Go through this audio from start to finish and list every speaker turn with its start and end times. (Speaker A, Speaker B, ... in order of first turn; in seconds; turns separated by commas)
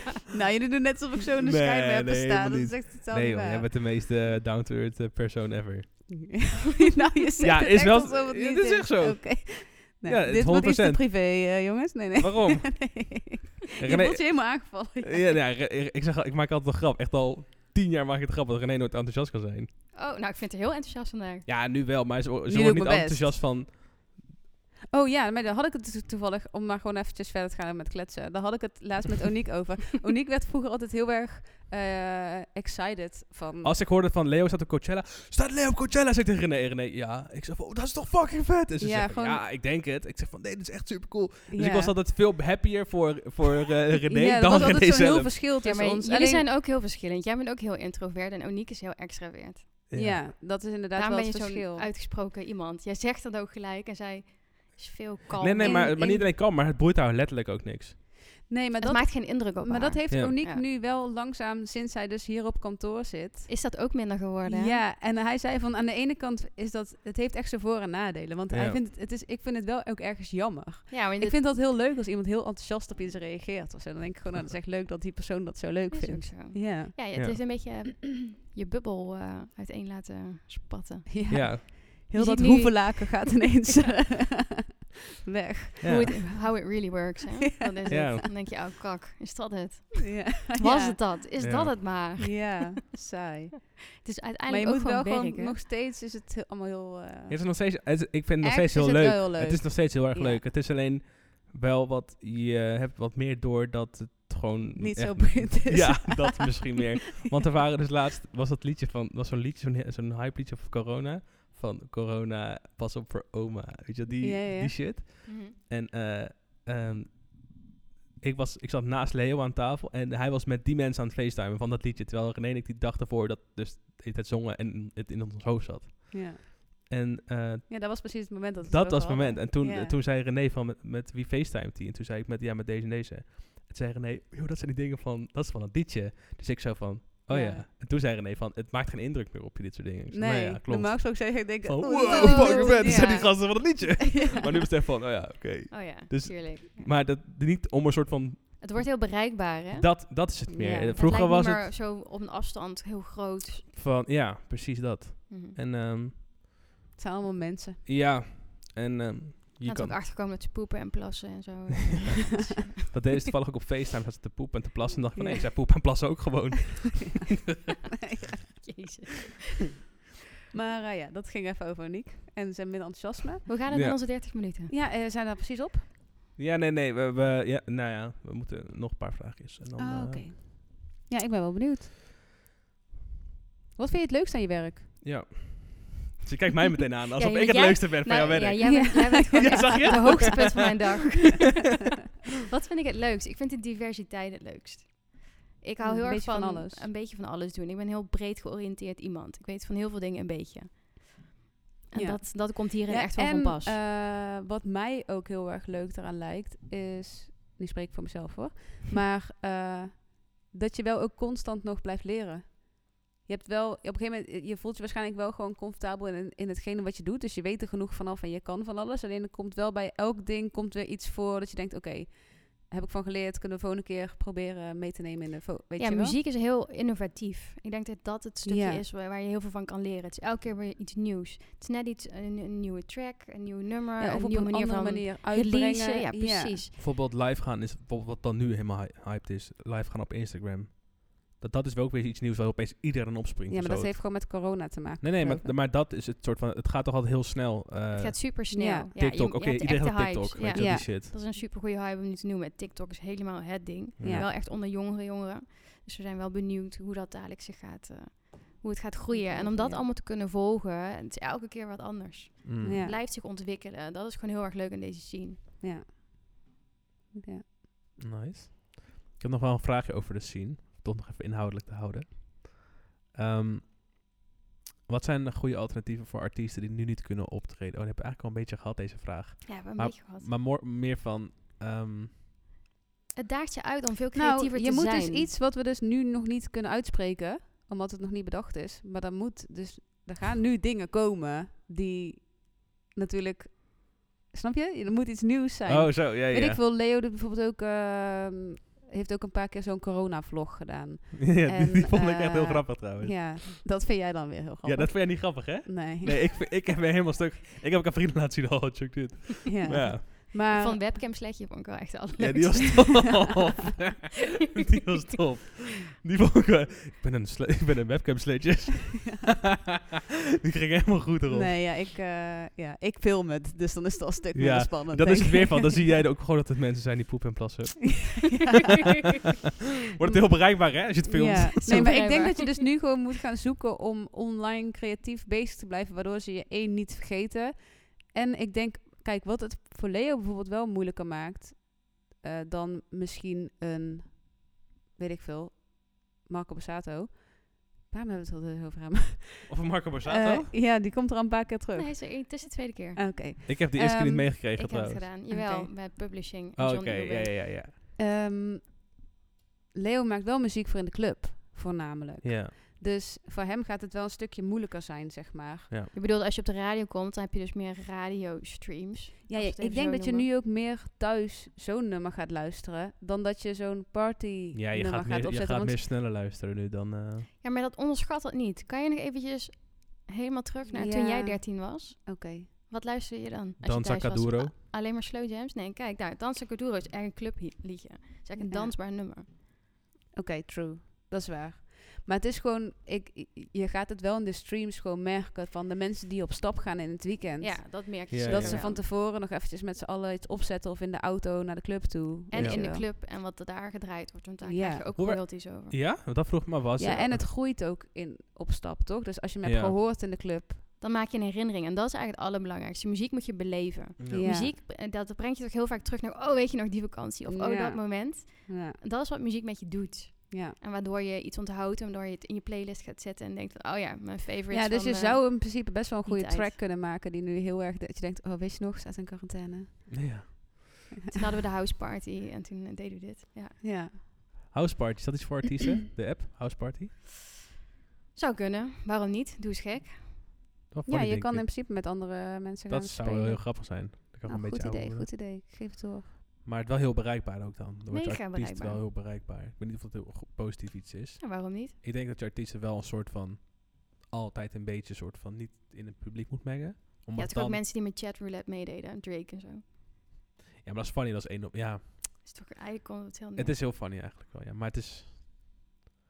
Speaker A: 0.3-3.7, Speaker B: 1.4-6.3, Speaker A: 6.1-15.4, Speaker B: 7.4-11.7, Speaker B: 12.2-13.2, Speaker B: 13.8-19.7, Speaker C: 19.9-21.5, Speaker B: 21.4-24.2, Speaker A: 22.5-23.4, Speaker A: 24.9-33.8, Speaker B: 33.6-45.4, Speaker A: 38.8-39.4, Speaker A: 41.5-42.0, Speaker A: 44.1-46.4, Speaker C: 45.6-49.7, Speaker B: 49.9-50.2, Speaker A: 49.9-51.9, Speaker C: 50.9-56.2, Speaker B: 55.4-58.0, Speaker A: 55.6-56.1, Speaker A: 58.5-63.5, Speaker C: 58.8-60.6, Speaker B: 60.1-60.4, Speaker C: 63.5-64.8, Speaker A: 64.5-77.0, Speaker B: 68.5-68.8, Speaker C: 70.9-71.4, Speaker C: 75.9-83.5, Speaker A: 81.1-86.4, Speaker B: 81.3-81.6, Speaker B: 85.8-86.1, Speaker C: 85.8-92.8, Speaker A: 87.6-88.3, Speaker B: 87.9-88.3, Speaker A: 90.0-91.1, Speaker B: 91.4-91.9, Speaker A: 92.2-93.8, Speaker C: 94.0-95.6, Speaker A: 94.5-97.5, Speaker B: 97.3-117.7, Speaker A: 98.4-100.4, Speaker A: 104.8-106.8, Speaker A: 114.2-114.8, Speaker C: 115.2-115.5, Speaker B: 118.2-148.9, Speaker A: 126.1-126.4, Speaker A: 127.7-129.9, Speaker A: 137.3-137.7, Speaker A: 140.1-144.4, Speaker C: 142.1-143.3, Speaker C: 145.7-146.9, Speaker C: 148.6-149.9, Speaker B: 149.7-151.6, Speaker A: 150.5-151.0, Speaker C: 150.9-153.7, Speaker B: 153.7-156.2, Speaker C: 155.3-155.6, Speaker A: 157.0-157.8, Speaker B: 157.8-160.0, Speaker C: 159.6-162.8, Speaker B: 162.9-167.3, Speaker A: 165.1-166.0, Speaker C: 168.6-169.6, Speaker A: 170.5-173.5, Speaker C: 173.5-174.7, Speaker B: 173.7-174.0, Speaker A: 174.7-175.8, Speaker B: 176.3-180.4, Speaker A: 179.8-181.9, Speaker A: 183.8-184.9, Speaker B: 185.0-190.7, Speaker C: 187.2-191.8, Speaker A: 188.7-190.3, Speaker C: 192.5-201.2, Speaker A: 195.8-196.9, Speaker C: 201.9-203.8, Speaker A: 201.9-226.2, Speaker C: 225.8-236.7, Speaker A: 228.4-228.8, Speaker A: 234.0-236.6, Speaker B: 236.8-248.4, Speaker A: 243.5-245.5, Speaker C: 247.9-265.4, Speaker A: 248.5-248.9, Speaker B: 248.9-251.1, Speaker A: 250.5-250.9, Speaker B: 254.0-254.3, Speaker A: 254.0-254.3, Speaker A: 259.1-259.8, Speaker B: 262.4-262.8, Speaker A: 262.6-263.0, Speaker A: 265.6-265.9, Speaker A: 267.1-267.4, Speaker B: 268.0-273.7, Speaker B: 274.9-282.1, Speaker C: 279.4-280.3, Speaker C: 283.2-285.3, Speaker A: 284.1-306.2, Speaker B: 295.7-296.6, Speaker B: 301.2-303.8, Speaker B: 304.6-310.1, Speaker A: 309.4-310.8, Speaker C: 310.1-313.2, Speaker B: 312.2-319.7, Speaker B: 320.4-321.6, Speaker A: 321.3-325.8, Speaker B: 324.3-328.5, Speaker A: 328.2-328.9, Speaker B: 329.9-332.0, Speaker A: 331.1-352.0, Speaker C: 331.6-332.8, Speaker B: 349.5-350.5, Speaker C: 351.7-353.0, Speaker A: 352.9-354.4, Speaker B: 353.4-355.1, Speaker C: 354.6-357.3, Speaker A: 355.3-355.7, Speaker B: 356.6-357.7, Speaker A: 358.0-358.8, Speaker A: 359.7-365.7, Speaker B: 362.2-362.5, Speaker C: 365.9-370.3, Speaker A: 369.3-375.8, Speaker B: 374.5-377.3, Speaker C: 377.4-389.3, Speaker A: 380.7-382.5, Speaker B: 383.6-384.5, Speaker A: 388.4-388.7, Speaker A: 390.1-402.8, Speaker C: 397.4-398.8, Speaker B: 398.1-398.6, Speaker C: 402.3-405.8, Speaker A: 404.4-404.8, Speaker B: 404.9-407.2, Speaker A: 406.8-410.6, Speaker B: 409.4-409.7, Speaker C: 410.8-426.6, Speaker B: 414.0-414.3, Speaker A: 414.1-414.5, Speaker A: 417.2-418.8, Speaker A: 420.3-420.6, Speaker A: 424.5-430.3, Speaker B: 429.9-430.7, Speaker C: 431.1-433.6, Speaker A: 433.6-433.9, Speaker B: 434.5-436.9, Speaker C: 438.1-440.2, Speaker B: 440.7-441.5, Speaker A: 440.9-446.1, Speaker B: 442.7-445.1, Speaker B: 446.4-457.6, Speaker C: 447.9-448.8, Speaker C: 451.2-451.8, Speaker C: 457.1-459.6, Speaker B: 460.6-462.2, Speaker C: 462.2-463.6, Speaker B: 463.4-465.1